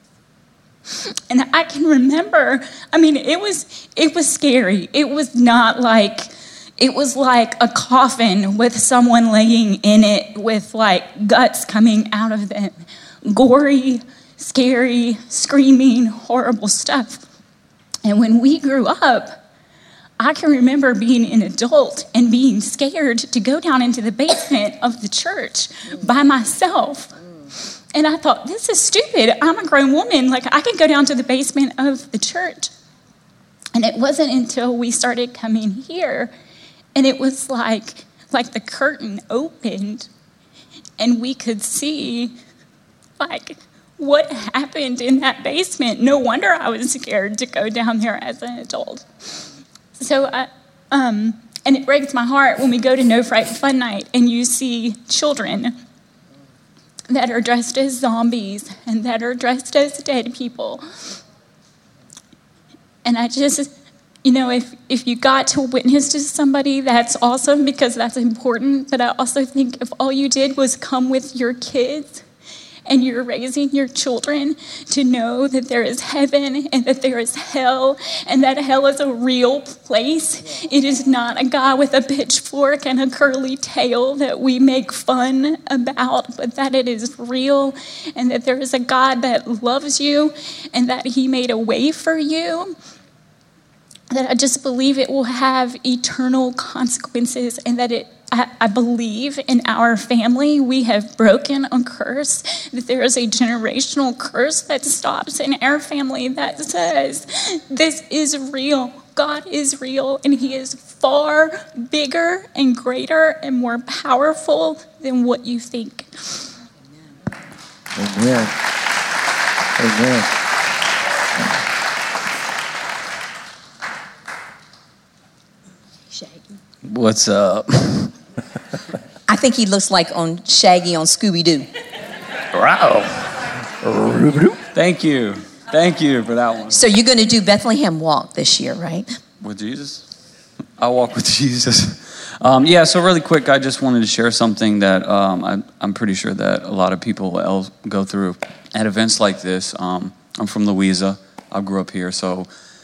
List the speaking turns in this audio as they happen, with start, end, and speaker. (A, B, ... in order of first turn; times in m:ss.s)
0:00.9-0:17.2 A
0:18.0-0:19.4 A
0:20.2-0:27.1 A
0:27.9-0:32.7 A
0:33.7-0:36.3 A
0:37.0-0:40.1 A
0:41.0-0:42.4 A
0:43.2-0:49.4 A
0:50.0-0:55.8 A
0:57.1-1:00.8 A
1:03.0-1:03.7 A
1:04.2-1:12.2 A
1:12.9-1:32.7 A
1:34.1-1:56.5 A
1:58.0-1:58.6 B
1:59.8-2:00.3 B
2:06.8-2:08.1 C
2:09.3-2:11.7 D
2:12.5-2:13.2 C
2:13.8-2:14.6 B
2:14.7-2:16.8 C
2:16.7-2:19.1 D
2:19.4-2:20.1 C
2:20.8-2:32.5 C